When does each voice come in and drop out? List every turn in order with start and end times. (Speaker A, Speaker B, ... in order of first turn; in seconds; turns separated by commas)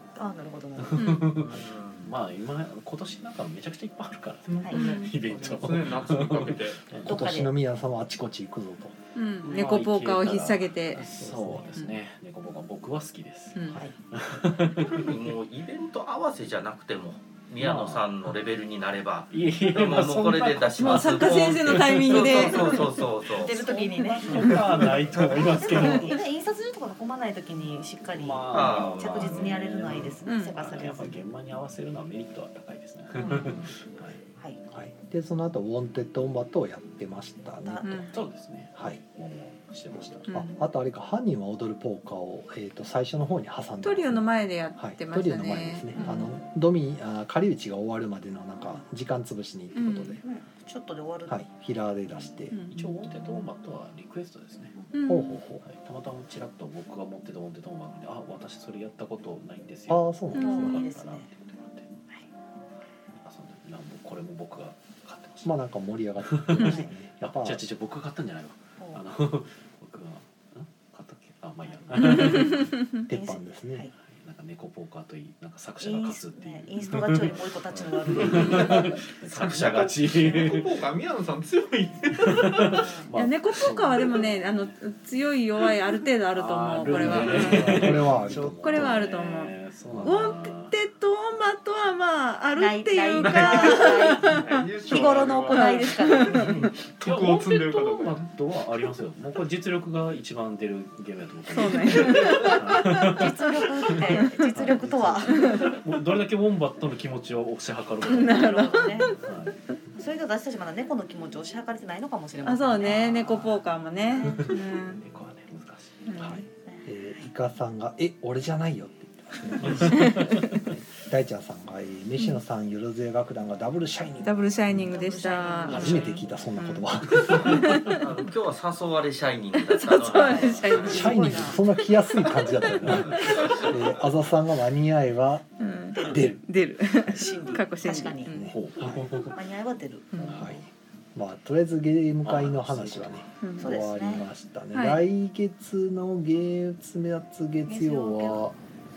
Speaker A: 0.2-1.1, Speaker B: 0.8-7.3, Speaker C: 1.0-1.3, Speaker D: 1.5-2.1, Speaker E: 4.5-6.9, Speaker C: 4.7-5.1, Speaker A: 7.1-7.5, Speaker F: 7.1-9.0, Speaker C: 9.2-11.1, Speaker B: 9.4-15.2, Speaker F: 11.2-11.8, Speaker C: 13.6-13.8, Speaker D: 14.8-23.6, Speaker B: 17.6-18.4, Speaker B: 19.3-26.2, Speaker C: 20.8-22.9, Speaker A: 22.5-22.8, Speaker A: 23.3-31.2, Speaker B: 28.1-34.2, Speaker D: 28.5-30.1, Speaker C: 30.3-30.6, Speaker A: 33.2-33.6, Speaker D: 33.3-33.7, Speaker F: 34.7-38.0, Speaker A: 37.6-38.2, Speaker C: 37.8-38.1, Speaker B: 38.1-40.3, Speaker C: 40.3-40.6, Speaker F: 40.3-50.2, Speaker C: 43.8-46.3, Speaker C: 49.8-50.2, Speaker A: 50.2-51.4, Speaker F: 51.3-52.6, Speaker C: 52.5-52.9, Speaker B: 52.7-54.8, Speaker C: 54.9-55.4, Speaker F: 55.1-55.6, Speaker B: 55.6-61.9, Speaker F: 59.9-60.8, Speaker C: 60.3-60.7, Speaker A: 60.4-61.3, Speaker B: 63.2-65.6, Speaker F: 65.4-67.6, Speaker B: 66.2-72.8, Speaker A: 66.6-66.9, Speaker A: 71.6-73.9, Speaker C: 72.0-72.8, Speaker F: 73.1-73.9, Speaker B: 74.0-80.8, Speaker A: 75.8-79.0, Speaker D: 79.2-80.1, Speaker E: 80.0-82.9, Speaker B: 82.1-84.4, Speaker A: 82.7-83.1, Speaker C: 83.1-87.9, Speaker B: 86.3-90.8, Speaker F: 86.9-89.0, Speaker E: 87.0-87.9, Speaker C: 88.6-94.6, Speaker A: 92.5-96.6, Speaker E: 93.2-98.3, Speaker C: 95.5-96.5, Speaker B: 96.8-109.6, Speaker C: 101.5-103.2, Speaker E: 102.2-102.5, Speaker A: 102.8-105.7, Speaker C: 108.1-109.2, Speaker A: 108.1-109.2, Speaker A: 110.0-114.4, Speaker C: 112.5-115.0, Speaker B: 114.2-116.3, Speaker C: 116.1-116.5, Speaker F: 116.2-124.8, Speaker A: 116.7-117.3, Speaker B: 119.6-120.7, Speaker C: 119.8-120.6, Speaker C: 124.2-128.1, Speaker A: 124.9-126.1, Speaker F: 125.7-127.7, Speaker B: 125.8-126.2, Speaker B: 127.1-127.9, Speaker D: 127.5-131.1, Speaker C: 129.6-133.7, Speaker A: 130.1-131.6, Speaker B: 130.5-131.5, Speaker F: 130.8-136.4, Speaker B: 132.5-133.6, Speaker C: 135.6-138.5, Speaker A: 137.1-138.3, Speaker F: 138.3-139.1, Speaker B: 138.5-139.4, Speaker A: 139.3-140.1, Speaker C: 140.1-140.4, Speaker B: 140.2-140.6, Speaker F: 140.3-148.6, Speaker B: 142.2-143.3, Speaker C: 143.4-143.7, Speaker A: 143.6-144.2, Speaker C: 144.7-145.0, Speaker A: 147.7-148.4